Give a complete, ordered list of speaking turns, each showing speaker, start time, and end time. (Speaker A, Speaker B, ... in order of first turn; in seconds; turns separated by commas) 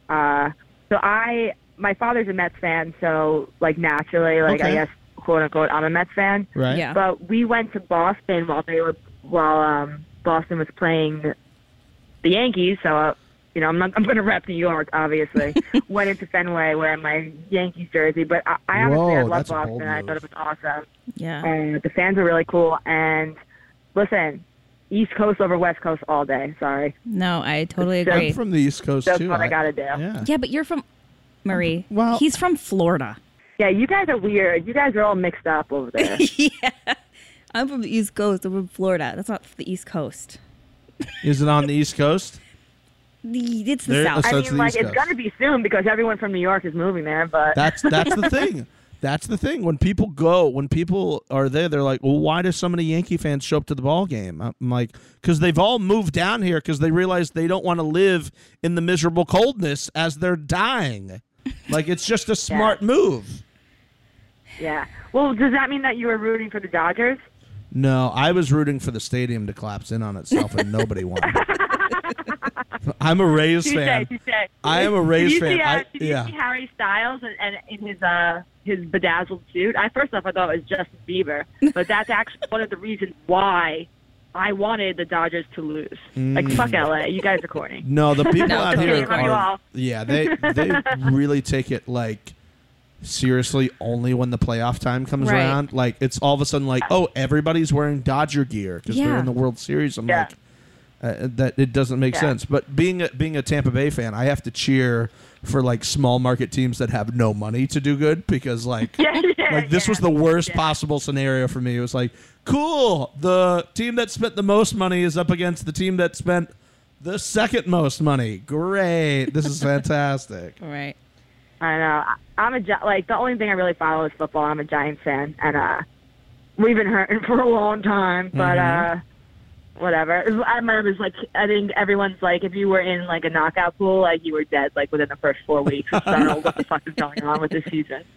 Speaker A: 0.1-11.3, Speaker B: 4.5-4.8, Speaker B: 6.5-6.8, Speaker C: 6.7-7.0, Speaker A: 12.2-20.9, Speaker B: 18.7-20.2, Speaker C: 21.2-21.5, Speaker A: 21.4-23.4, Speaker A: 23.9-26.9, Speaker C: 27.1-28.4, Speaker A: 28.0-28.3, Speaker B: 28.1-30.3, Speaker A: 29.1-30.0, Speaker C: 30.2-30.8, Speaker C: 31.4-33.2, Speaker B: 31.9-32.2, Speaker A: 33.6-36.2, Speaker C: 36.0-37.0, Speaker C: 37.5-40.4, Speaker B: 41.2-42.4, Speaker C: 43.2-44.3, Speaker B: 43.9-45.1, Speaker A: 44.2-48.1, Speaker B: 47.5-63.4, Speaker A: 62.5-62.8, Speaker A: 64.6-67.2, Speaker B: 67.7-71.4, Speaker A: 71.2-72.6, Speaker B: 72.8-74.1, Speaker A: 73.6-91.0, Speaker B: 74.6-76.3, Speaker B: 86.2-86.8, Speaker B: 87.8-92.3, Speaker C: 88.4-89.4, Speaker B: 93.0-100.4, Speaker C: 95.2-95.6, Speaker C: 98.9-99.3, Speaker B: 101.0-120.6, Speaker A: 109.0-110.7, Speaker C: 120.6-121.0, Speaker A: 121.6-125.8, Speaker A: 126.6-129.0, Speaker B: 128.3-128.9, Speaker A: 129.8-138.1, Speaker B: 135.9-136.5